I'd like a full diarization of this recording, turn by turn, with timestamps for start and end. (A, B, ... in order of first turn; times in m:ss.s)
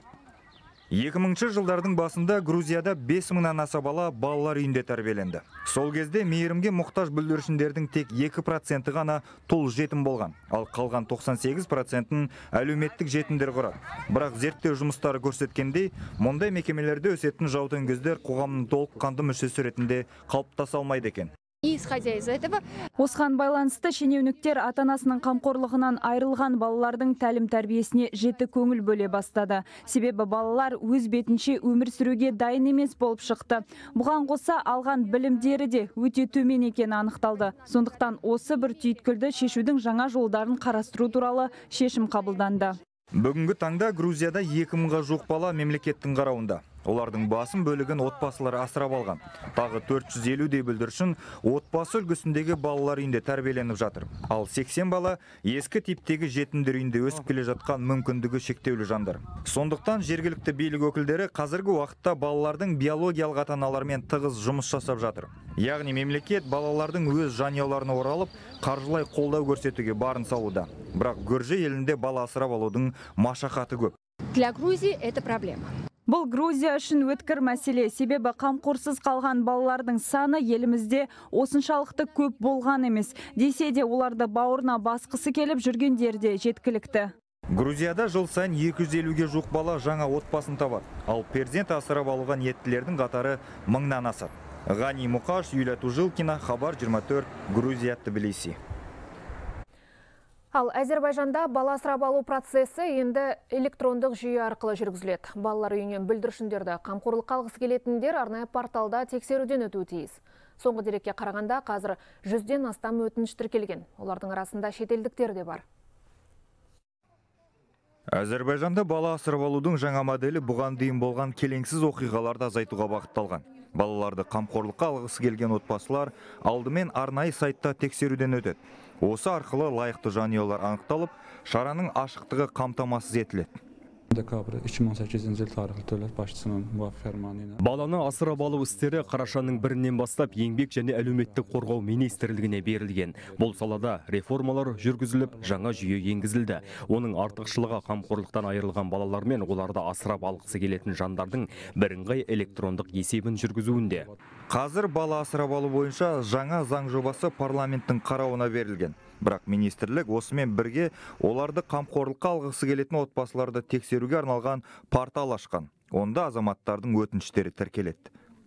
0:00.9-0:21.3 A
0:21.6-0:22.6 B
0:23.0-0:42.8 C
0:43.2-1:13.9 A
1:14.3-1:15.7 B
1:16.1-1:27.1 C
1:27.5-1:38.6 A
1:40.5-1:55.6 D
1:58.1-2:13.5 A
2:14.1-2:17.6 E
2:17.6-2:34.1 F
2:18.3-2:19.5 E
2:34.5-2:48.1 A